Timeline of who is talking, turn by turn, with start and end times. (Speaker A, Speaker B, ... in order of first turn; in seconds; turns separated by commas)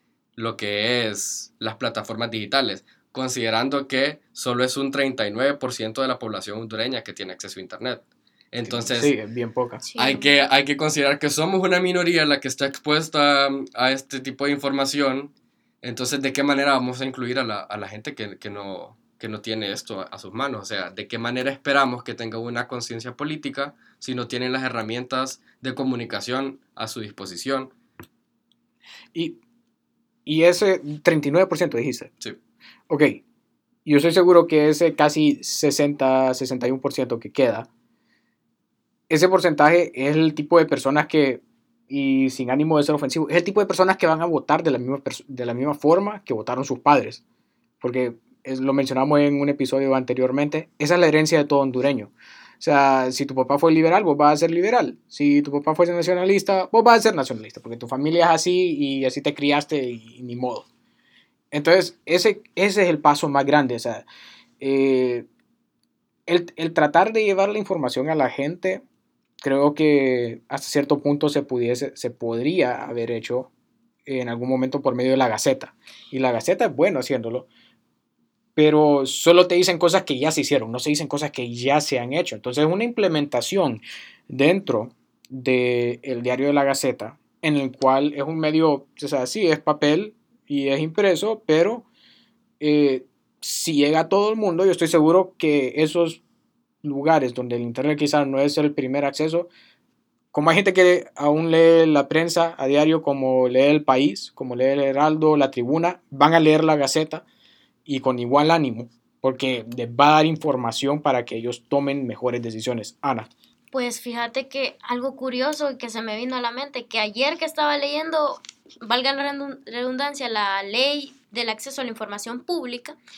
Speaker A: 0.3-9.1, Speaker B: 8.6-9.8, Speaker C: 9.8-10.3, Speaker A: 10.0-27.7, Speaker B: 30.2-32.1, Speaker B: 32.9-33.2, Speaker B: 33.8-37.7, Speaker B: 39.1-47.2, Speaker B: 47.8-60.6, Speaker B: 61.5-64.0, Speaker B: 64.6-65.2, Speaker B: 66.3-68.8, Speaker B: 69.4-73.5, Speaker B: 74.0-77.5, Speaker B: 78.5-91.8, Speaker B: 92.6-96.2, Speaker B: 96.8-99.5, Speaker B: 100.3-107.2, Speaker B: 107.8-113.3, Speaker C: 113.7-123.0